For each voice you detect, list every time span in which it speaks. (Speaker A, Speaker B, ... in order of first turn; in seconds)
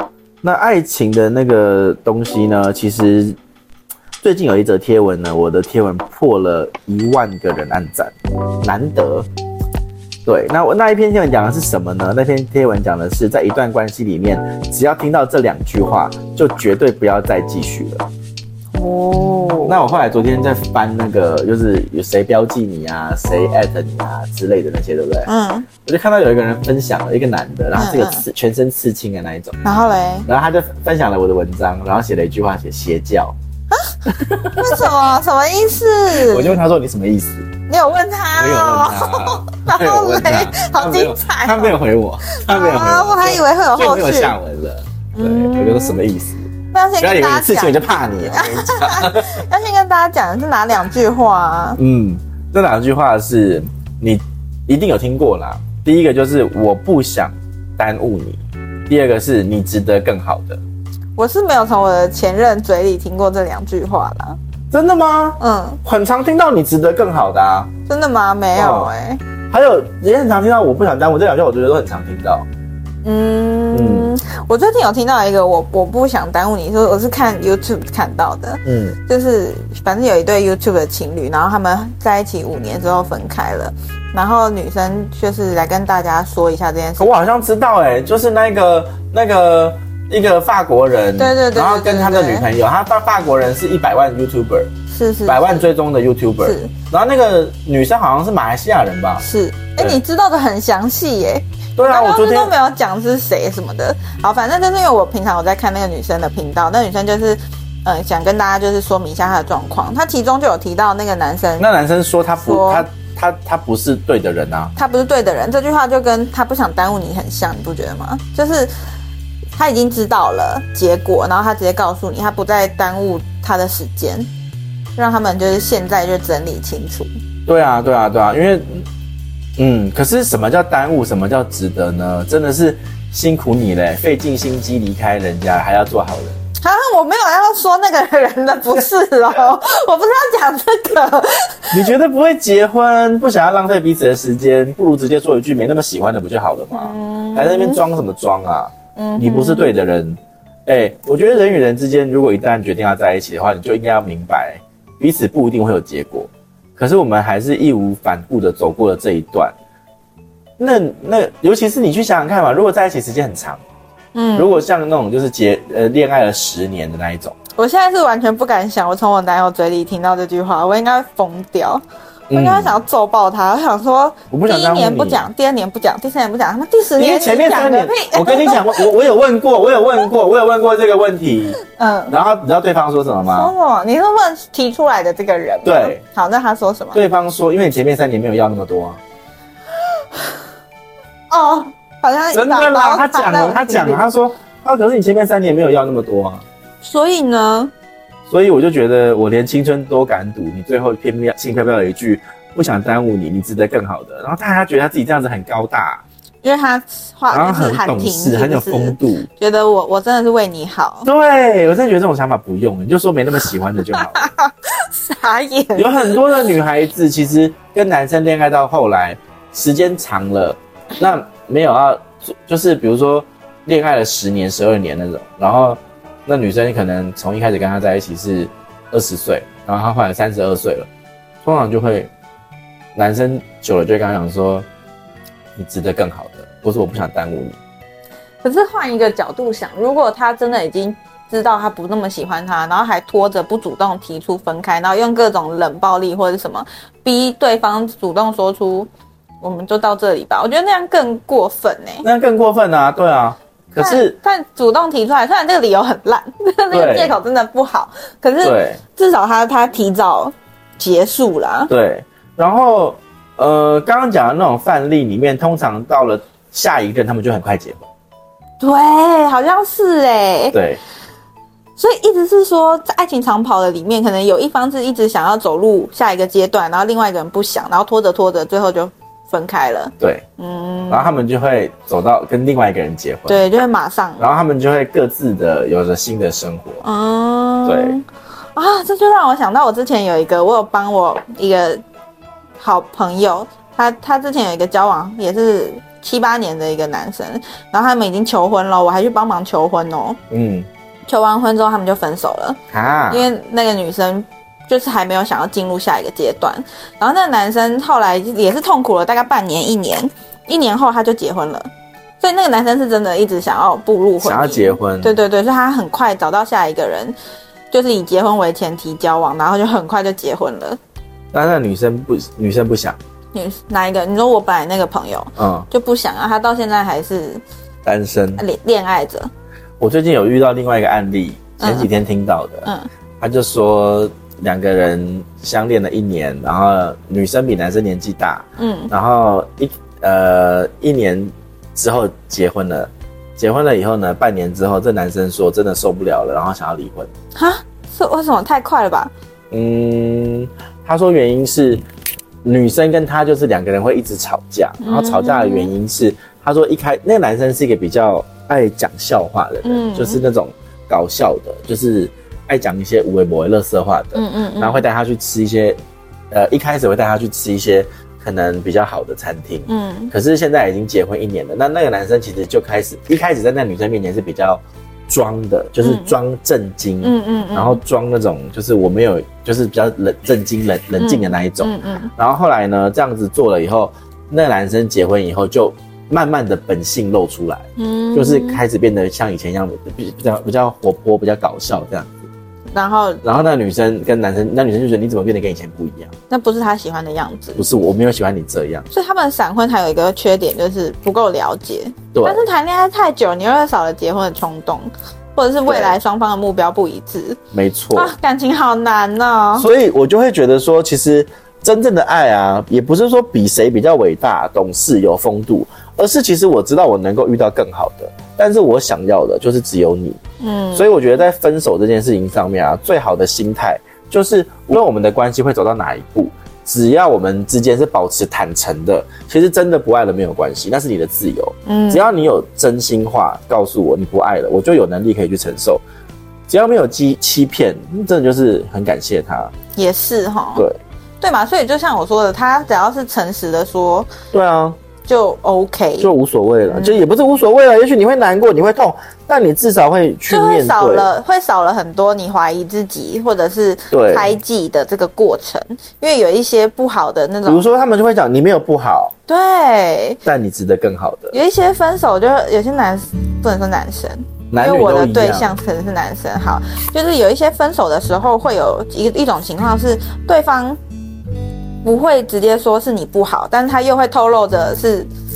Speaker A: 0.4-3.4, 4.2-9.3, 10.3-18.0, 19.7-25.3, 25.9-29.6, 30.3-33.4, 34.1-34.9, 36.1-37.5, 38.4-49.4, 51.8-60.6, 64.7-67.7, 68.5-68.9, 69.5-72.5, 73.7-74.1, 78.7-79.0, 87.0-94.7, 95.3-99.3, 101.8-102.5, 111.6-114.7, 127.5-128.9, 129.6-136.4, 141.7-159.5, 160.6-163.6, 164.3-167.3, 172.3-172.8, 174.3-175.2, 177.0-183.5, 185.6-186.0, 186.9-189.0, 192.3-196.4, 198.3-206.0, 207.3-209.3, 211.1-214.3, 215.8-230.9, 231.4-232.1, 232.9-234.7, 235.6-237.6, 252.0-254.2, 256.7-257.2, 258.4-258.8, 261.7-267.9, 270.5-270.8, 280.0-280.2, 280.9-283.4, 284.2-286.9, 287.6-288.0, 300.3-300.7, 302.7-303.3, 314.2-315.2, 321.3-323.0, 325.4-325.7, 327.9-328.4, 329.8-347.1, 349.5-351.8, 352.4-365.8, 366.3-392.3, 393.2-396.1, 397.6-398.9, 402.1-402.4, 405.6-406.0, 407.5-408.1, 409.6-420.2, 420.7-435.8, 436.5-439.5, 444.3-444.8, 446.0-451.1, 453.9-454.3, 457.4-459.1, 460.2-461.4, 464.5-465.6
Speaker B: 18.8-19.8, 25.3-25.7, 27.8-28.2, 29.6-30.3, 33.7-34.0, 34.6-36.6, 37.7-41.8, 42.4-44.4, 45.2-46.0, 46.7-51.8, 61.2-64.4, 65.4-65.8, 67.9-69.2, 73.0-87.3, 91.2-92.5, 94.9-95.6, 96.4-96.7, 99.2-111.7, 112.4-112.9, 114.8-118.7, 119.5-124.3, 125.0-127.1, 136.6-141.9, 146.7-147.8, 149.0-149.8, 164.1-164.6, 167.6-178.9, 181.6-182.2, 183.3-187.0, 191.3-194.0, 196.8-197.7, 206.4-211.1, 213.9-216.5, 238.4-248.9, 249.4-252.1, 253.8-261.7, 268.6-270.6, 271.8-281.2, 283.3-284.3, 286.8-291.8, 292.6-300.2, 301.1-302.6, 303.1-311.7, 312.2-317.2, 317.7-320.8, 323.3-327.4, 328.4-329.3, 331.6-331.9, 338.6-338.9, 347.4-349.1, 354.8-355.7, 359.6-360.2, 364.1-364.9, 369.7-370.1, 375.8-376.1, 377.0-377.8, 381.0-382.1, 387.8-388.6, 392.7-393.2, 396.3-397.7, 398.9-407.4, 407.9-409.7, 420.4-420.9, 431.7-432.2, 439.8-440.6, 441.2-444.1, 445.1-446.1, 446.7-447.1, 450.3-457.6, 459.3-460.2, 461.3-470.8, 471.8-475.1